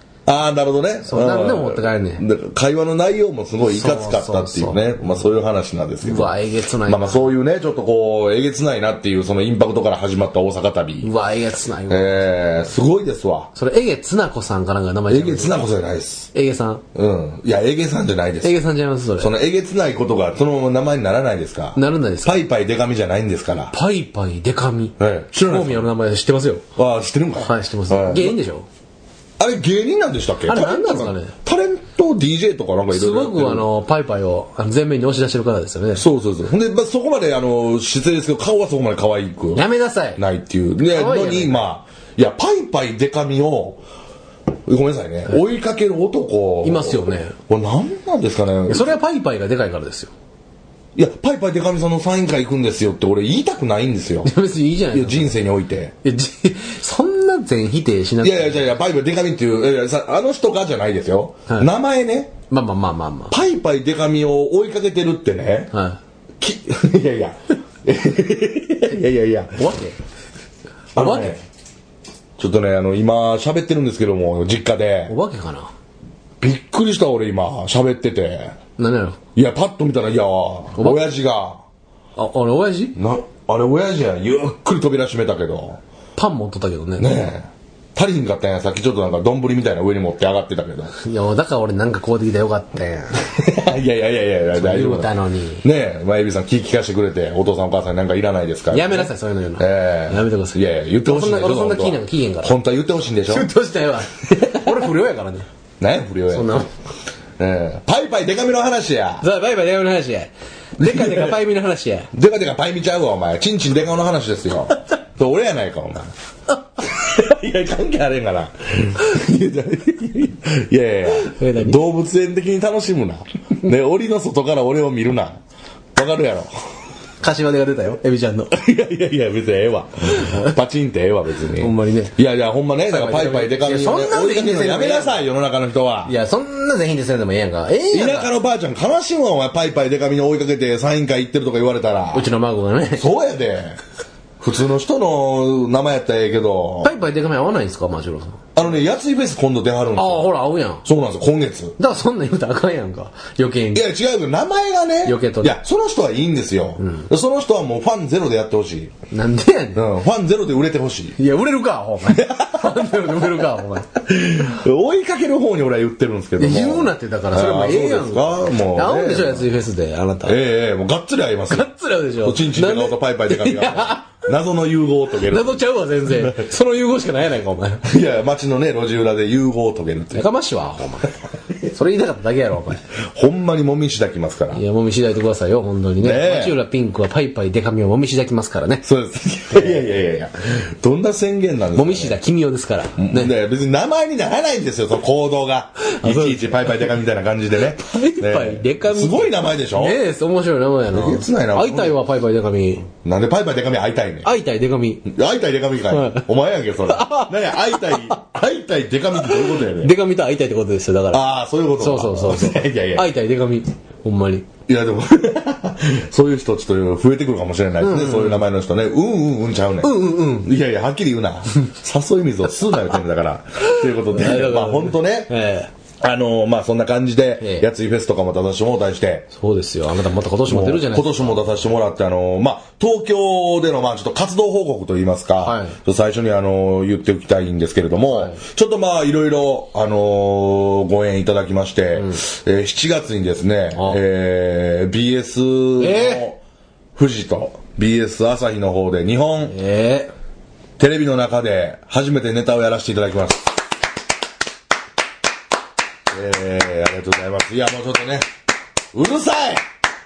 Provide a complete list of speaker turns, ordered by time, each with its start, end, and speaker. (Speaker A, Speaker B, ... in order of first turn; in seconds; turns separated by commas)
Speaker A: 0.3-11.1, Speaker B: 1.1-2.2, Speaker B: 3.7-4.9, Speaker B: 6.0-7.3, Speaker B: 11.0-12.3, Speaker A: 11.9-13.5, Speaker B: 13.6-15.7, Speaker A: 15.1-16.3, Speaker B: 16.3-16.8, Speaker A: 16.9-18.6, Speaker B: 18.4-19.3, Speaker A: 19.2-23.7, Speaker B: 21.8-22.4, Speaker B: 23.7-26.6, Speaker A: 25.0-25.9, Speaker A: 26.8-28.4, Speaker B: 27.4-28.7, Speaker A: 29.4-33.7, Speaker B: 30.5-31.3, Speaker B: 32.9-36.1, Speaker A: 36.0-39.6, Speaker B: 39.5-40.2, Speaker A: 40.2-43.8, Speaker B: 40.9-41.7, Speaker A: 44.7-49.0, Speaker B: 46.6-47.4, Speaker B: 48.7-50.1, Speaker A: 51.0-54.3, Speaker B: 54.2-55.4, Speaker A: 54.9-55.9, Speaker B: 56.0-58.7, Speaker A: 58.2-62.3, Speaker B: 62.5-63.4, Speaker A: 63.3-65.7, Speaker B: 65.7-66.0, Speaker A: 66.4-69.7, Speaker B: 69.5-70.0, Speaker A: 71.0-71.4, Speaker B: 71.0-71.4, Speaker A: 72.4-75.2, Speaker B: 75.1-75.7, Speaker A: 76.4-78.6, Speaker B: 78.8-79.2, Speaker A: 79.4-81.6, Speaker B: 80.8-81.0, Speaker B: 82.2-83.0, Speaker A: 83.0-85.8, Speaker B: 86.2-87.3, Speaker A: 87.0-90.9, Speaker B: 91.0-93.3, Speaker A: 93.2-95.1, Speaker B: 94.5-95.7, Speaker A: 95.6-103.5, Speaker B: 98.7-102.5, Speaker B: 103.3-105.5, Speaker A: 105.8-106.5, Speaker B: 106.3-106.7, Speaker A: 107.4-109.2, Speaker B: 109.2-112.1, Speaker A: 110.8-111.4, Speaker A: 112.1-116.1, Speaker A: 116.8-125.4, Speaker B: 121.1-121.8, Speaker A: 126.0-126.5, Speaker B: 127.2-128.6, Speaker A: 128.5-136.1, Speaker B: 130.1-130.6, Speaker B: 131.6-132.2, Speaker B: 132.9-135.2, Speaker B: 136.1-138.3, Speaker A: 137.9-142.3, Speaker B: 142.1-143.1, Speaker A: 143.0-143.8, Speaker A: 144.4-146.9, Speaker B: 146.8-148.4, Speaker A: 148.6-151.8, Speaker B: 150.0-150.8, Speaker B: 151.8-153.9, Speaker A: 153.7-158.9, Speaker B: 155.1-155.6, Speaker B: 156.8-157.1, Speaker B: 159.1-159.8, Speaker A: 159.8-161.2, Speaker B: 161.2-164.0, Speaker A: 162.1-163.2, Speaker A: 164.0-169.5, Speaker B: 166.4-170.4, Speaker A: 170.2-176.4, Speaker B: 171.5-174.1, Speaker B: 175.2-177.8, Speaker A: 177.8-180.3, Speaker B: 180.2-182.8, Speaker A: 183.1-184.6, Speaker B: 184.5-188.8, Speaker A: 186.0-186.6, Speaker A: 188.8-192.2, Speaker B: 189.5-189.8, Speaker B: 191.8-193.3, Speaker A: 193.0-200.0, Speaker B: 195.8-196.9, Speaker B: 197.7-202.9, Speaker A: 200.9-202.0, Speaker A: 203.0-204.3, Speaker B: 204.2-205.1, Speaker A: 205.1-210.0, Speaker B: 205.9-206.3, Speaker B: 206.9-208.2, Speaker B: 209.2-211.2, Speaker A: 211.1-213.1, Speaker B: 211.8-214.5, Speaker A: 214.7-225.3, Speaker B: 217.8-218.4, Speaker B: 219.8-220.5, Speaker B: 223.6-225.7, Speaker A: 226.0-229.3, Speaker B: 227.4-227.7, Speaker B: 229.4-231.4, Speaker A: 230.5-246.4, Speaker B: 235.4-235.8, Speaker B: 238.1-238.4, Speaker B: 245.8-246.3, Speaker A: 247.0-249.6, Speaker B: 249.5-250.1, Speaker A: 250.8-253.5, Speaker A: 256.1-258.3, Speaker A: 258.9-259.6